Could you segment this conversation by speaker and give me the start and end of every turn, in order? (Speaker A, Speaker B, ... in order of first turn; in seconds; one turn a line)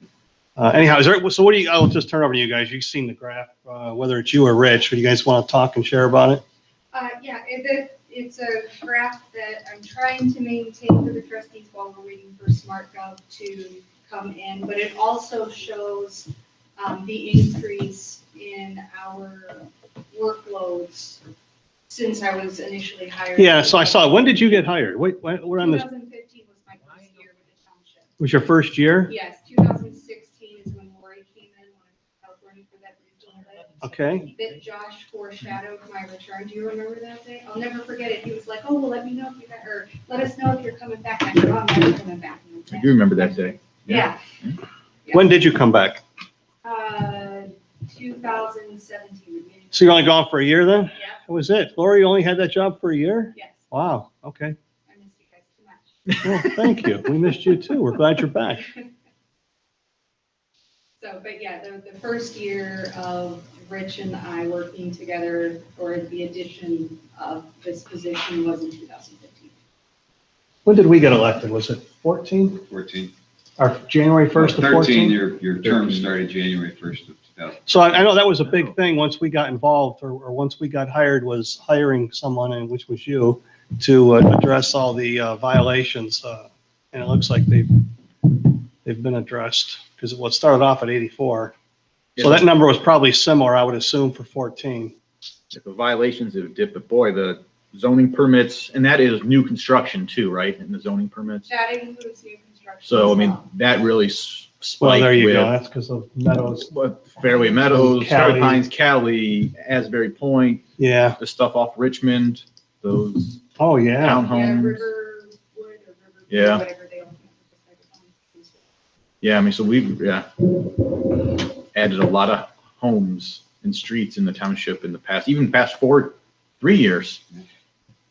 Speaker A: 0.6-6.4
Speaker B: 6.9-21.2
Speaker B: 21.9-24.2
Speaker A: 23.4-25.9
Speaker B: 25.6-28.1
Speaker A: 28.2-29.1
Speaker B: 29.1-44.2
Speaker A: 33.8-34.3
Speaker C: 42.7-43.5
Speaker B: 45.0-45.3
Speaker A: 45.1-46.0
Speaker B: 46.6-50.1
Speaker A: 49.7-54.5
Speaker B: 50.9-51.2
Speaker B: 53.4-53.6
Speaker B: 54.9-56.5
Speaker A: 56.2-58.7
Speaker B: 61.0-69.5
Speaker A: 70.6-72.6
Speaker D: 72.7-73.1
Speaker A: 73.6-75.8
Speaker D: 74.3-77.6
Speaker A: 77.7-91.5
Speaker C: 92.2-92.4
Speaker A: 92.2-94.9
Speaker C: 95.5-101.5
Speaker B: 101.5-103.5
Speaker C: 102.8-105.5
Speaker A: 104.8-106.7
Speaker C: 106.6-110.7
Speaker A: 107.6-108.6
Speaker A: 110.8-111.2
Speaker C: 111.2-113.4
Speaker A: 113.6-114.2
Speaker C: 114.0-114.8
Speaker B: 114.2-118.7
Speaker C: 116.3-116.6
Speaker C: 119.2-120.3
Speaker C: 121.7-127.2